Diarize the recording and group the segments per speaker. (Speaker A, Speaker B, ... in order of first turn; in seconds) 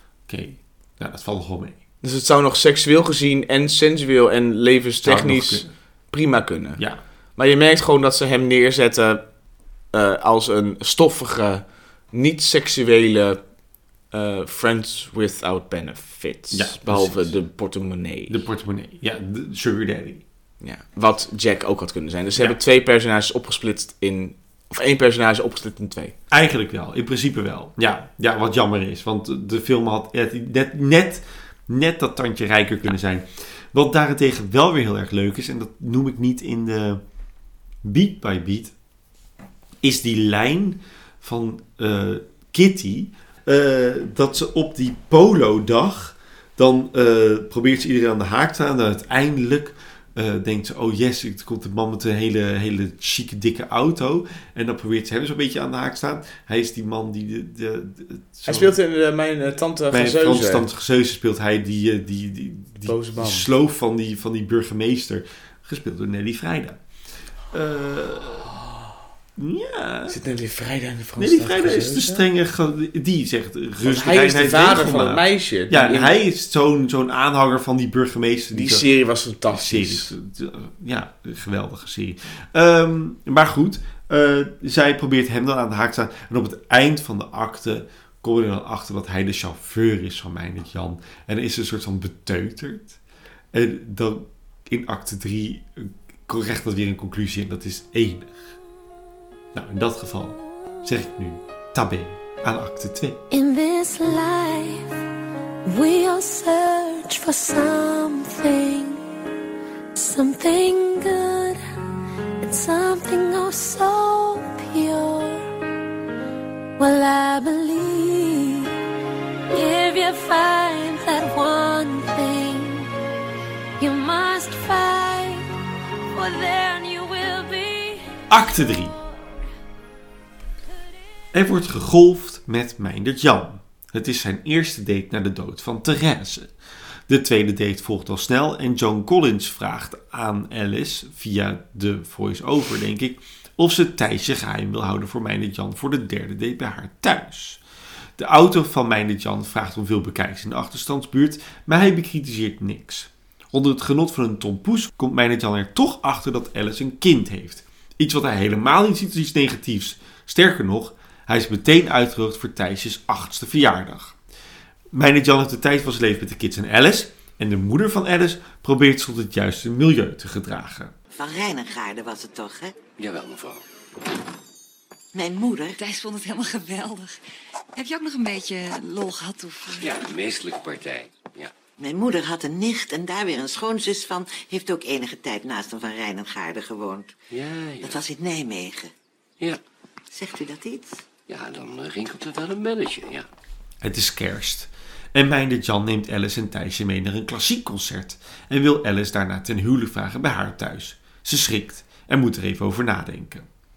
Speaker A: 0.3-1.8, 5.0-5.7, 16.5-17.4, 18.3-20.2, 26.3-37.0, 37.8-38.7, 39.8-58.7, 59.9-66.8, 67.5-68.5, 69.4-70.2, 71.2-78.9, 79.5-93.0, 93.5-98.3, 99.5-103.2, 128.3-128.9, 131.3-136.5, 137.1-147.6, 148.2-164.2, 164.9-170.9, 193.8-203.5
Speaker B: 2.0-6.8, 7.4-9.2, 9.9-13.4, 14.1-18.4, 20.6-26.2, 58.5-60.7, 62.9-63.5, 70.1-72.2, 73.8-76.2, 78.5-80.1
Speaker C: 103.3-105.0, 105.7-109.0, 110.0-111.8, 112.4-115.5, 116.8-118.7, 119.5-122.9, 123.8-125.5, 126.1-128.2
Speaker D: 171.2-172.8, 175.1-175.8, 181.8-187.1, 187.8-188.9, 190.1-191.0
Speaker E: 173.0-173.6, 179.8-181.5, 187.3-188.0, 191.3-193.3
Speaker F: 175.8-177.2, 177.8-179.9